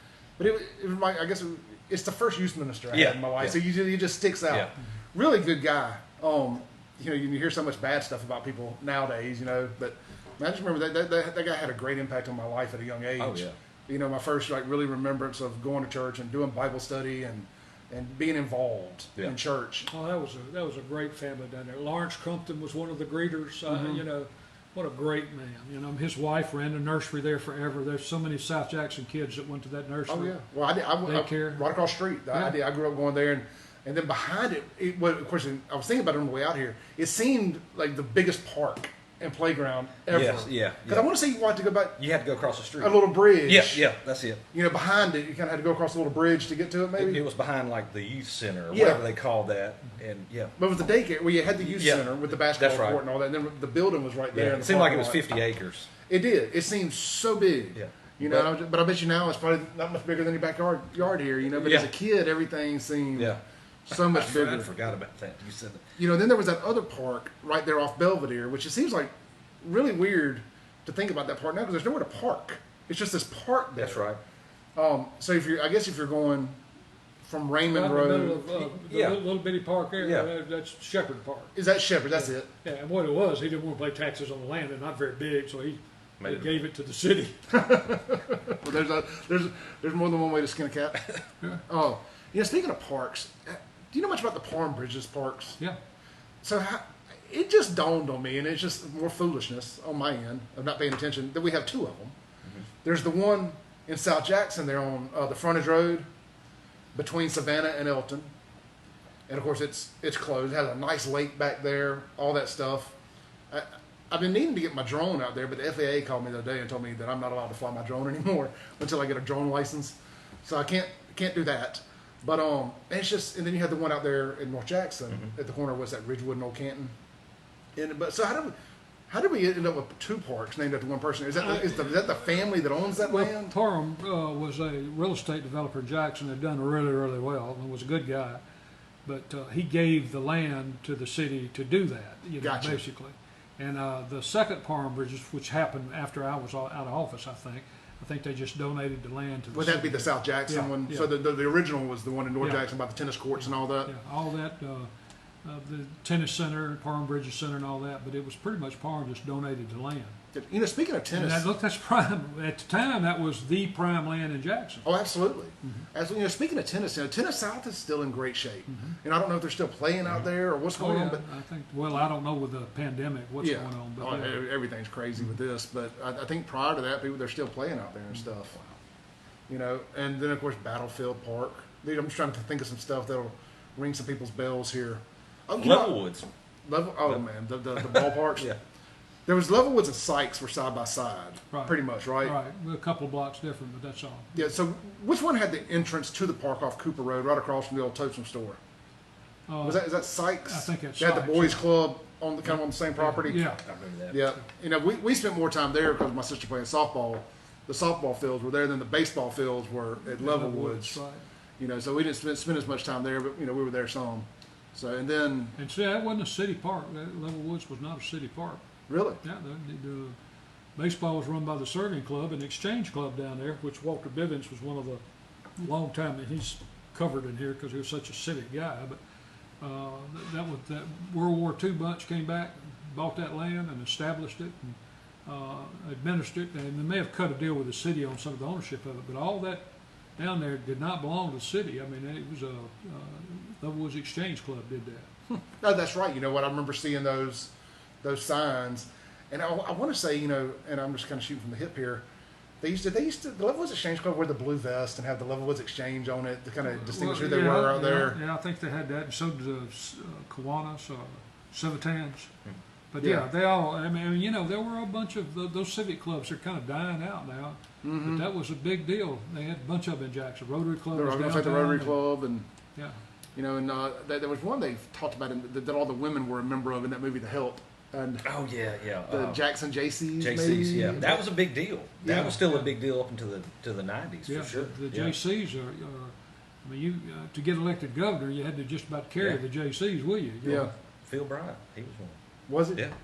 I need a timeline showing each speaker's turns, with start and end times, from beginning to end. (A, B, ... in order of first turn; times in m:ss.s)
0:00.4-0:19.9 A
0:02.9-0:03.6 B
0:13.2-0:13.5 B
0:19.9-0:30.4 C
0:23.7-0:24.0 A
0:30.1-0:42.0 A
0:31.0-0:31.7 C
0:32.3-0:32.6 C
0:40.1-0:41.1 B
0:42.0-0:44.4 B
0:42.8-0:43.9 A
0:44.5-0:47.2 A
0:47.0-0:50.6 B
0:48.7-0:49.0 A
0:50.6-0:55.3 A
0:51.7-0:53.0 B
0:54.3-0:55.9 B
0:56.1-1:04.7 A
0:57.8-0:58.5 B
1:01.6-1:01.9 B
1:03.2-1:05.8 B
1:06.0-1:14.1 A
1:13.8-1:14.2 B
1:14.8-1:16.6 A
1:17.2-1:18.5 A
1:17.7-1:21.6 C
1:18.9-1:19.2 B
1:20.0-1:20.3 B
1:21.6-1:22.5 A
1:22.2-1:27.6 C
1:26.2-1:26.5 B
1:27.5-1:31.0 A
1:31.7-1:35.6 A
1:36.4-1:42.2 A
1:42.8-1:46.1 A
1:46.9-1:48.3 A
1:49.3-1:53.0 A
1:53.5-2:06.9 A
2:07.8-2:08.6 A
2:09.1-2:13.5 A
2:13.0-2:18.4 C
2:19.0-2:31.1 C
2:22.4-2:22.8 A
2:29.5-2:33.9 A
2:33.4-2:34.9 C
2:35.4-2:40.2 C
2:40.3-2:41.5 A
2:41.1-2:44.9 C
2:44.8-2:51.2 A
2:48.7-2:49.0 C
2:50.8-2:54.4 C
2:53.4-2:58.6 A
2:59.5-3:06.0 A
3:05.6-3:06.3 B
3:06.7-3:08.5 A
3:07.8-3:08.6 B
3:09.3-3:12.4 A
3:11.5-3:14.4 C
3:14.3-3:18.6 A
3:19.5-3:21.7 C
3:19.6-3:23.5 A
3:23.0-3:23.6 C
3:23.4-3:24.2 B
3:24.1-3:31.0 A
3:30.0-3:31.2 C
3:31.6-3:35.6 A
3:35.6-3:38.6 C
3:38.9-3:39.2 A
3:39.2-3:40.2 C
3:40.8-3:45.0 C
3:45.6-3:49.0 C
3:49.6-3:59.7 C
4:00.2-4:05.1 C
4:05.3-4:12.0 A
4:12.6-4:18.2 A
4:16.6-4:22.3 C
4:22.9-4:32.1 C
4:23.0-4:23.3 A
4:27.8-4:28.2 A
4:30.9-4:32.5 A
4:33.4-4:38.3 A
4:38.2-4:39.4 B
4:39.1-4:41.2 A
4:40.2-4:45.2 B
4:42.0-4:42.4 A
4:42.1-4:42.7 C
4:44.3-4:50.7 C
4:50.4-4:50.7 A
4:51.1-4:52.2 B
4:52.5-4:52.8 A